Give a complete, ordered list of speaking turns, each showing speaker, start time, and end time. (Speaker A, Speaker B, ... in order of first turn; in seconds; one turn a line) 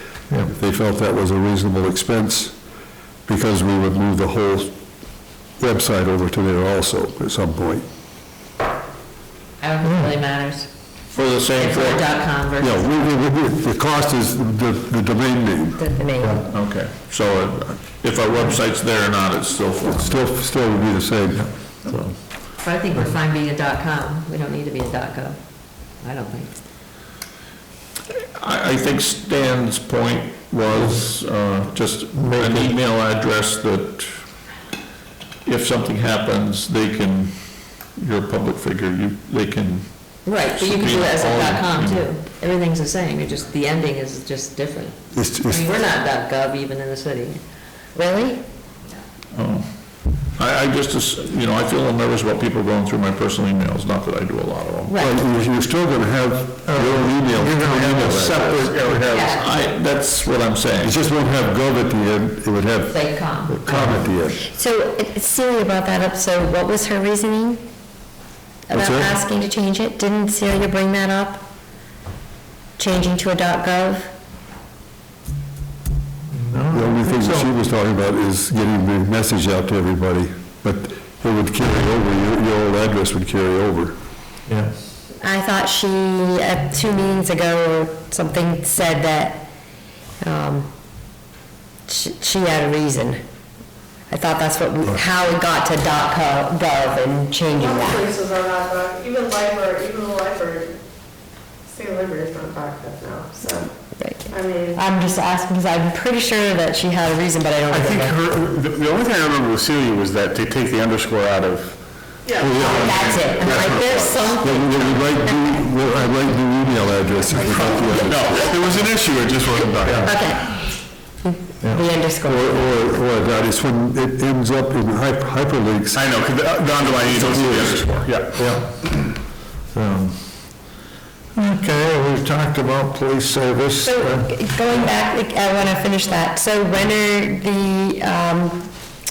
Speaker A: 0.4-2.6
Speaker A: 3.3-4.8
Speaker A: 5.6-7.9
Speaker B: 9.6-10.7
Speaker C: 9.8-10.2
Speaker D: 11.1-12.3
Speaker B: 11.6-13.2
Speaker A: 12.6-15.8
Speaker E: 15.8-16.4
Speaker C: 16.2-16.5
Speaker D: 16.5-20.8
Speaker A: 19.9-21.5
Speaker C: 21.3-22.4
Speaker B: 22.6-26.5
Speaker D: 28.1-34.5
Speaker C: 32.1-32.8
Speaker D: 35.4-42.2
Speaker B: 40.2-47.4
Speaker A: 45.1-45.6
Speaker E: 48.0-48.4
Speaker D: 49.3-55.0
Speaker B: 54.9-55.2
Speaker A: 55.0-58.6
Speaker C: 56.7-59.2
Speaker D: 58.0-60.9
Speaker F: 58.2-59.4
Speaker B: 59.1-59.4
Speaker A: 60.8-63.0
Speaker B: 62.9-63.6
Speaker C: 63.5-64.1
Speaker A: 63.6-64.4
Speaker E: 64.3-67.7
Speaker E: 68.7-71.4
Speaker A: 68.7-69.2
Speaker E: 72.8-74.1
Speaker C: 76.3-77.5
Speaker A: 76.7-84.0
Speaker C: 84.5-84.9
Speaker E: 85.2-89.5
Speaker E: 90.2-90.7
Speaker E: 91.9-93.2
Speaker E: 94.1-98.1
Speaker G: 97.5-100.8
Speaker G: 101.7-103.7
Speaker E: 104.0-108.2
Speaker G: 104.3-104.8
Speaker F: 107.7-114.4
Speaker G: 112.2-114.0
Speaker A: 112.4-112.9
Speaker E: 112.7-115.6
Speaker A: 114.4-118.5
Speaker G: 117.5-118.0
Speaker F: 118.0-120.3
Speaker C: 119.8-120.1
Speaker E: 120.0-120.6
Speaker E: 121.2-122.6
Speaker C: 121.6-121.9
Speaker A: 122.2-126.0
Speaker F: 125.9-129.1
Speaker A: 127.1-127.9
Speaker C: 128.3-130.8
Speaker C: 131.3-134.3
Speaker E: 133.8-138.7